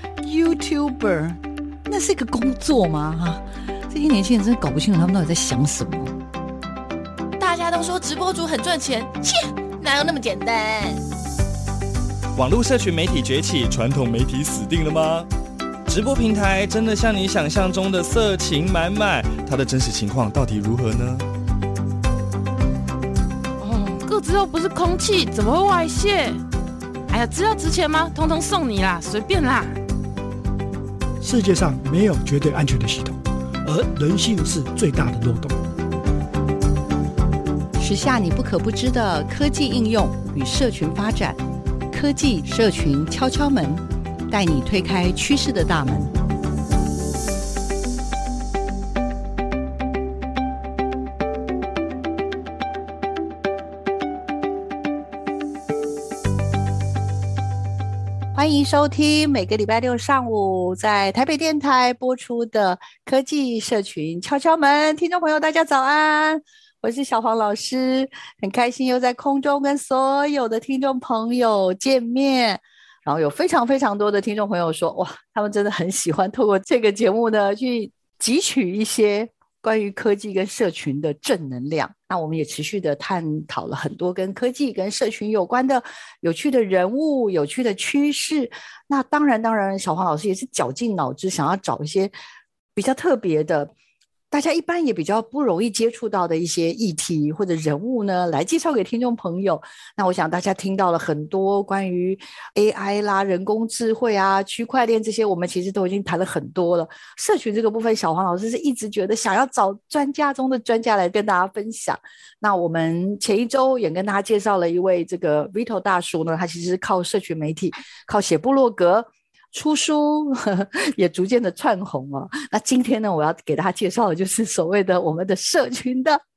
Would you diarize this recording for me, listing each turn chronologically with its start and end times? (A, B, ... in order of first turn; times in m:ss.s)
0:00.2-0:06.1 A
0:07.4-0:11.0 B
0:12.3-0:15.3 C
0:15.8-0:21.3 C
0:23.6-0:26.4 B
0:27.1-0:29.8 B
0:31.2-0:35.6 D
0:37.8-0:46.1 A
0:58.3-1:32.1 A
1:32.8-1:33.7 A
1:34.3-2:06.2 A